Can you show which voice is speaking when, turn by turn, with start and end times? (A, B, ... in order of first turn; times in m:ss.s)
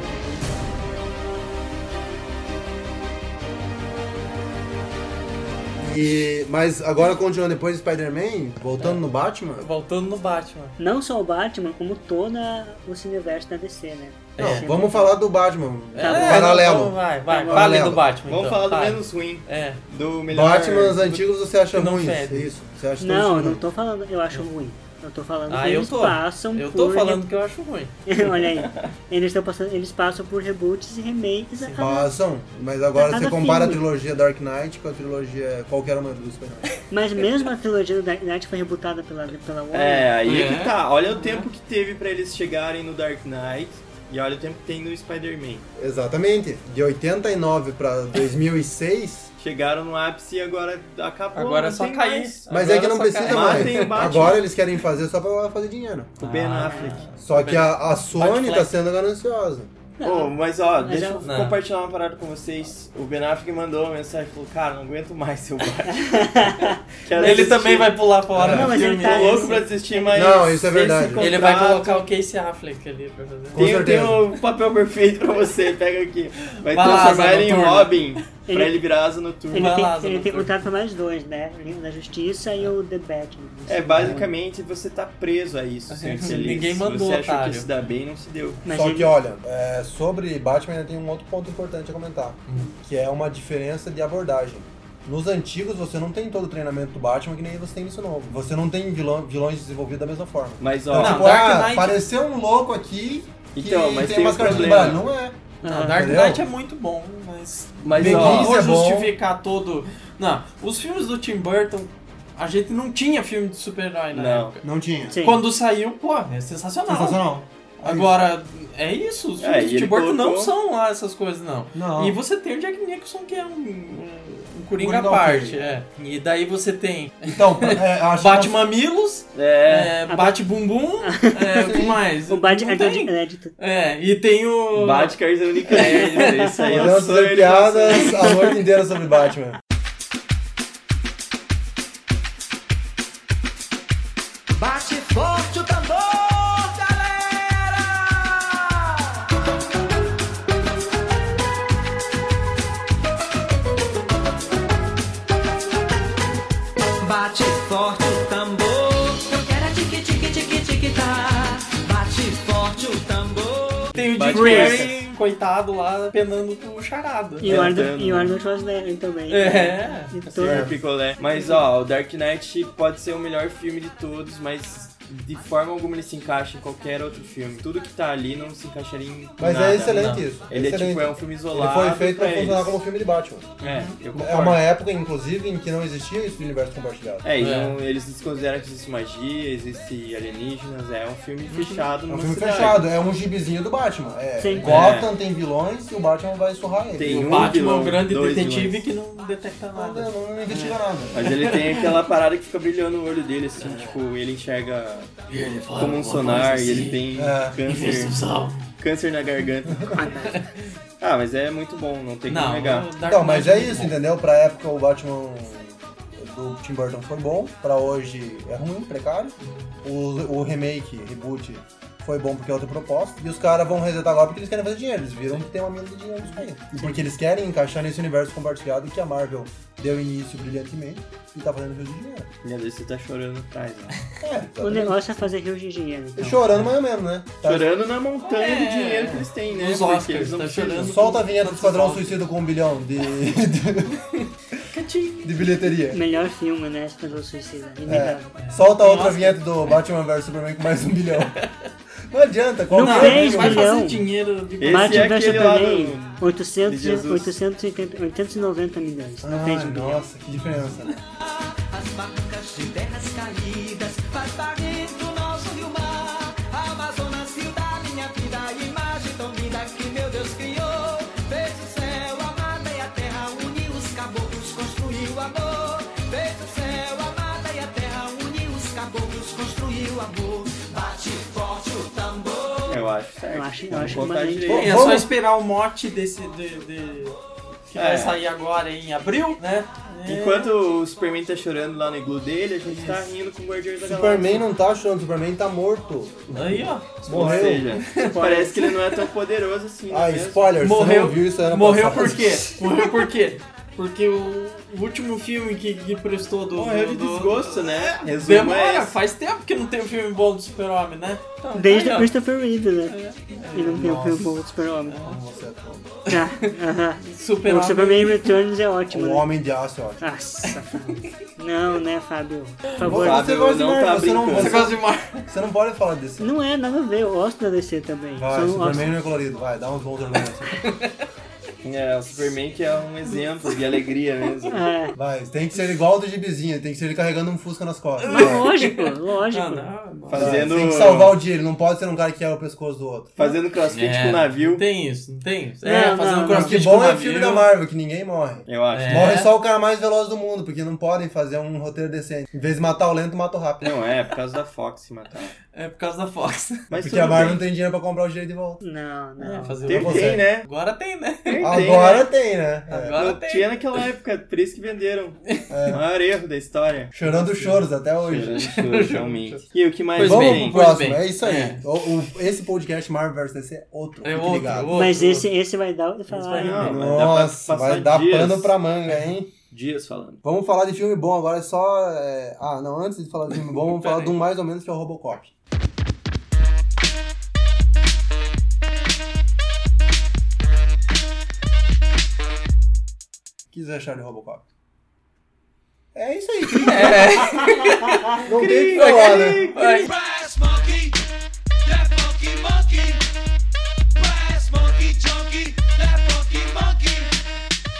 0:05.8-0:09.6 A
0:09.6-0:10.8 B
0:10.8-0:15.1 C
0:14.4-0:14.7 B
0:14.4-0:18.0 A
0:15.9-0:19.8 B
0:16.0-0:16.7 C
0:17.3-0:17.7 C
0:18.2-0:21.2 D
0:20.3-0:23.6 A
0:21.7-0:22.5 B
0:23.0-0:27.2 C
0:25.5-0:27.9 B
0:28.1-0:32.1 C
0:31.8-0:36.7 A
0:32.9-0:33.8 C
0:36.9-0:40.1 C
0:39.7-0:45.7 D
0:40.2-0:40.8 B
0:45.8-0:49.3 A
0:49.4-0:54.4 D
0:51.3-0:54.3 B
0:52.5-0:56.2 A
0:56.2-0:57.1 D
0:56.2-0:58.7 B
0:56.7-0:56.9 C
0:57.2-0:59.7 A
1:00.0-1:01.3 C
1:00.0-1:06.3 D
1:01.2-1:01.6 B
1:05.9-1:07.5 C
1:07.0-1:07.9 D
1:07.1-1:09.6 B
1:08.3-1:08.8 A
1:08.4-1:10.3 C
1:08.7-1:12.0 D
1:10.1-1:11.3 A
1:11.2-1:13.7 B
1:13.5-1:14.2 A
1:13.6-1:19.8 D
1:16.6-1:18.2 B
1:18.5-1:18.8 C
1:19.5-1:24.3 C
1:19.5-1:20.5 B
1:23.7-1:28.6 D
1:24.0-1:24.2 B
1:25.9-1:27.7 B
1:28.6-1:29.1 C
1:28.7-1:46.4 A
1:32.5-1:32.7 B
1:40.6-1:41.4 D
1:40.9-1:42.0 B
1:43.5-1:45.1 D
1:44.4-1:45.0 B
1:45.6-1:46.1 C
1:45.6-1:54.6 B
1:47.8-1:48.6 D
1:47.9-1:49.1 A
1:54.1-1:54.6 D
1:54.6-1:55.2 A
1:55.1-1:55.4 C
1:55.2-1:57.3 B
1:56.9-1:58.1 A
1:57.8-2:17.0 B
1:59.4-2:00.5 D
2:01.7-2:02.2 A
2:04.8-2:05.6 A
2:07.2-2:08.6 A
2:09.3-2:10.0 D
2:10.1-2:10.4 C
2:11.0-2:13.5 C
2:11.6-2:12.0 A
2:14.7-2:18.2 D
2:16.7-2:19.6 A
2:24.5-2:29.2 E
2:37.0-2:44.0 E
2:43.9-2:47.5 B
2:44.1-2:45.0 D
2:44.3-2:44.9 C
2:47.4-2:50.8 C
2:47.4-2:48.4 D
2:49.3-2:50.2 B
2:50.3-3:02.8 D
2:50.4-2:50.7 A
2:51.3-2:51.6 C
2:59.4-3:03.5 A
2:59.8-3:00.2 B
3:03.6-3:04.0 B
3:03.6-3:04.6 D
3:04.1-3:07.2 A
3:07.2-3:12.8 D
3:07.4-3:07.8 B
3:11.5-3:11.9 B
3:12.1-3:17.4 A
3:14.4-3:14.7 C
3:14.6-3:15.0 B
3:14.6-3:15.1 D
3:16.9-3:18.8 D
3:17.1-3:22.0 B
3:19.7-3:21.3 A
3:21.1-3:25.2 D
3:23.6-3:24.0 B
3:25.3-3:27.0 B
3:25.7-3:28.2 D
3:27.1-3:27.6 A
3:27.6-3:28.7 B
3:28.8-3:30.0 D
3:29.9-3:30.4 C
3:30.3-3:30.5 B
3:31.0-3:32.9 D
3:32.3-3:34.0 B
3:33.0-3:52.3 A
3:39.4-3:39.7 B
3:52.4-3:54.0 D
3:54.2-3:55.0 A
3:54.6-3:56.4 C
3:56.2-3:57.7 A
3:57.4-4:01.0 D
3:58.2-4:02.2 B
4:00.8-4:04.0 A
4:04.7-4:05.6 B
4:05.2-4:06.0 A
4:05.9-4:08.3 C
4:07.8-4:11.4 A
4:08.4-4:09.7 B
4:12.1-4:13.8 A
4:12.7-4:14.0 C
4:12.8-4:15.4 B
4:14.6-4:17.3 D
4:14.6-4:20.0 C
4:19.2-4:21.0 A
4:20.4-4:20.7 B
4:21.1-4:42.8 E
4:42.7-4:44.9 D
4:43.3-4:44.7 C
4:44.5-4:45.1 A
4:44.5-4:47.2 B
4:47.7-4:50.5 B
4:47.7-4:48.2 D
4:50.0-4:54.4 D
4:52.7-4:53.0 B
4:53.8-4:57.8 A
4:56.3-4:59.0 B
4:57.0-5:00.5 D
4:58.0-4:58.5 C
4:59.9-5:02.6 A
5:00.6-5:12.1 B
5:06.5-5:08.9 D
5:11.5-5:13.0 C
5:12.9-5:14.3 B
5:13.5-5:15.0 C
5:14.9-5:15.2 B
5:15.0-5:15.9 A
5:16.1-5:18.4 B
5:16.1-5:19.3 C
5:18.9-5:20.0 A
5:20.0-5:23.3 C
5:20.5-5:21.1 B
5:22.8-5:26.3 A
5:22.9-5:24.7 D
5:24.3-5:25.3 B
5:26.2-5:29.0 C
5:28.2-5:30.7 A
5:30.6-5:30.9 B
5:31.6-5:34.7 D
5:34.5-5:34.9 C
5:34.9-5:38.5 A
5:38.0-5:40.6 B
5:38.1-5:39.7 C
5:40.1-5:41.2 D
5:40.1-5:43.2 A
5:43.2-5:44.6 D
5:43.7-5:47.5 B
5:45.6-5:46.6 C
5:46.3-5:53.8 A
5:48.5-5:49.1 D
5:48.7-5:49.3 B
5:53.6-5:55.3 D
5:55.5-5:56.6 B
5:56.7-5:57.4 D
5:56.8-5:58.6 A
5:58.6-5:59.6 C
5:59.2-6:01.8 B
5:59.6-6:00.5 D
5:59.7-6:00.2 A
6:01.3-6:02.1 D
6:01.4-6:03.0 A
6:02.7-6:03.8 B
6:02.9-6:07.0 D
6:05.5-6:05.8 A
6:06.9-6:08.4 A
6:07.0-6:07.6 B
6:08.0-6:10.6 D
6:08.2-6:09.4 B
6:09.9-6:11.6 B
6:10.0-6:14.9 A
6:14.0-6:15.3 B
6:14.7-6:16.7 C
6:16.1-6:16.9 B
6:16.4-6:18.5 D
6:16.6-6:19.3 A
6:19.5-6:20.2 D
6:20.2-6:25.3 A
6:23.7-6:24.2 B
6:33.5-6:34.4 A
6:35.9-6:37.4 A
6:36.6-6:38.2 B
6:38.2-6:39.4 A
6:38.3-6:39.8 D
6:38.7-6:39.9 B
6:39.8-6:41.0 E
6:41.6-6:43.0 E
6:44.0-6:47.1 E